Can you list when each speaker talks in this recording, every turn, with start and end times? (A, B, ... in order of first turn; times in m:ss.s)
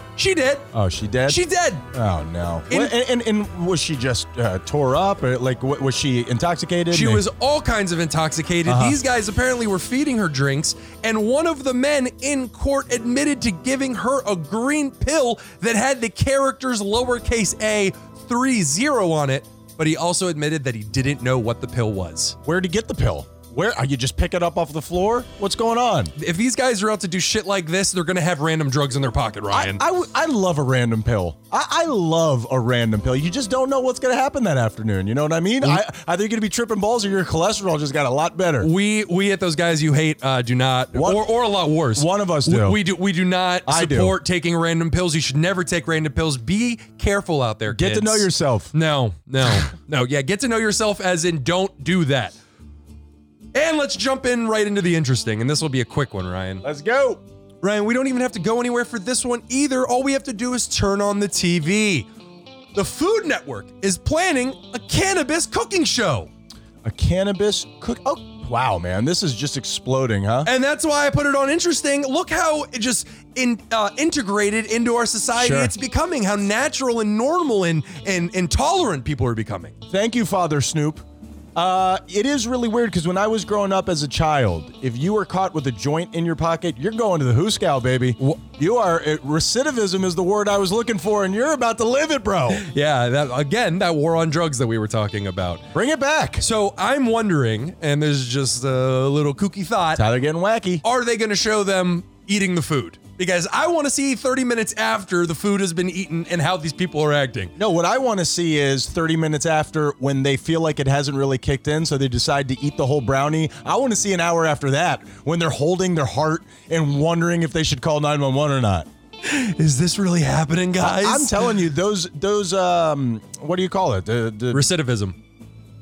0:00.2-0:00.7 A
0:00.7-0:07.2 B
0:01.3-0:01.9 A
0:02.7-0:02.9 A
0:06.9-0:22.4 A
0:08.6-0:09.0 B
0:22.4-0:26.1 B
0:26.2-0:29.8 A
0:29.5-0:38.7 B
0:38.6-0:52.4 A
0:40.9-0:41.2 B
0:41.9-0:42.8 B
0:43.6-0:44.2 B
0:47.7-0:48.7 B
0:53.5-0:56.6 A
0:56.6-0:57.2 B
0:57.6-1:02.1 A
1:02.7-1:06.3 A
1:06.8-1:10.5 B
1:10.4-1:19.7 A
1:15.4-1:15.7 B
1:19.9-1:21.0 B
1:21.6-1:32.6 B
1:32.5-1:35.7 A
1:35.7-1:36.4 B
1:36.4-1:40.0 A
1:40.0-1:40.8 B
1:40.8-1:47.5 A
1:47.6-1:58.9 B
1:59.2-2:01.6 A
2:00.8-2:04.6 B
2:04.5-2:05.2 A